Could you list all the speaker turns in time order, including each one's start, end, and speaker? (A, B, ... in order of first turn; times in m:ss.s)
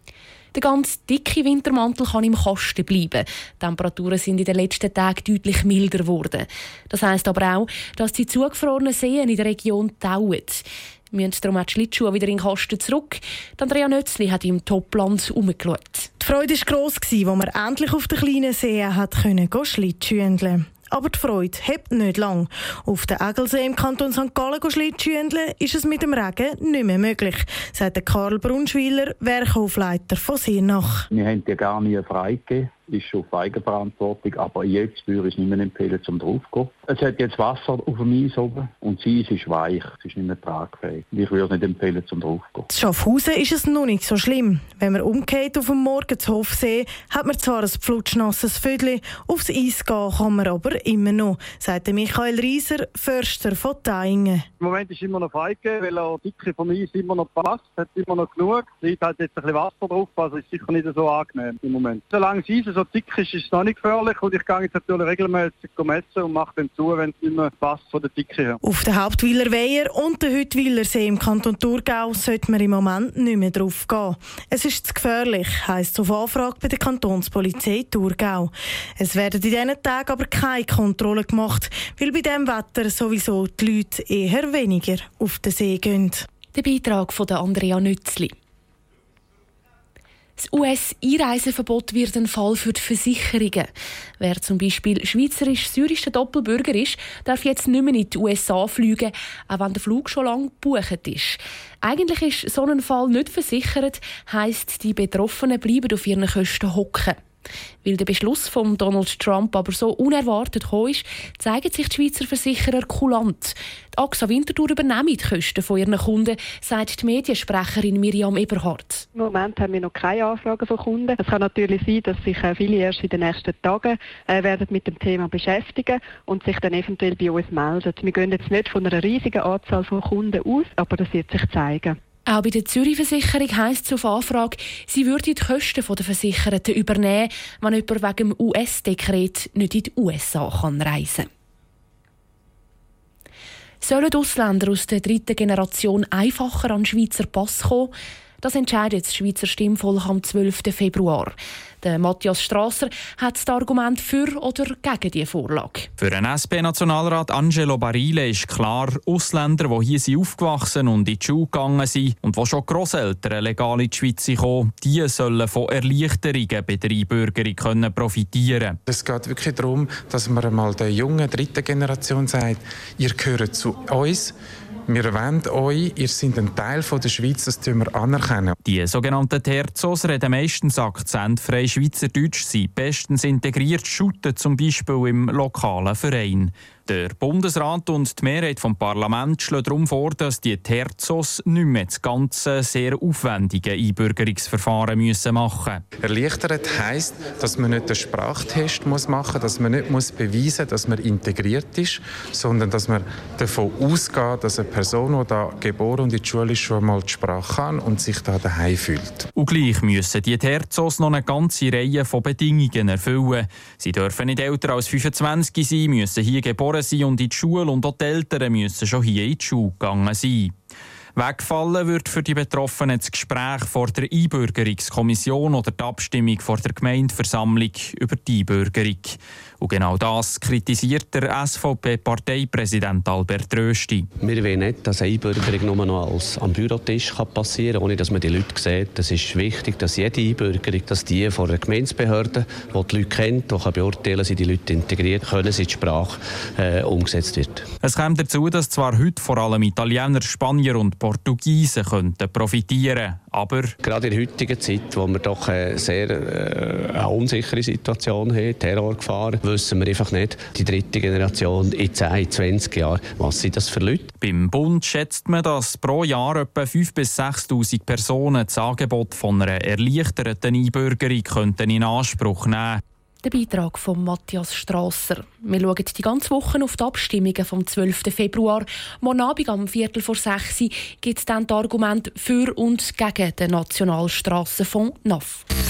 0:00.5-0:16.1 A
0:16.2-0:31.0 B
0:31.1-0:42.7 C
0:42.7-0:54.4 B
0:54.6-1:08.6 D
1:08.6-1:26.2 B
1:26.5-1:28.3 A
1:30.4-1:47.2 A
1:47.8-1:59.1 A
1:59.1-2:12.0 E
2:12.2-2:21.3 A
2:23.8-2:35.9 A
2:36.0-2:48.8 F
2:48.9-2:54.3 G
2:54.9-2:58.5 G
2:58.6-3:15.8 F
3:16.0-3:29.3 G
3:29.3-3:40.5 F
3:41.2-3:54.0 F
3:54.2-4:07.6 H
4:07.8-4:13.7 F
4:13.8-4:24.1 H
4:24.2-4:32.8 F
4:33.2-4:45.4 A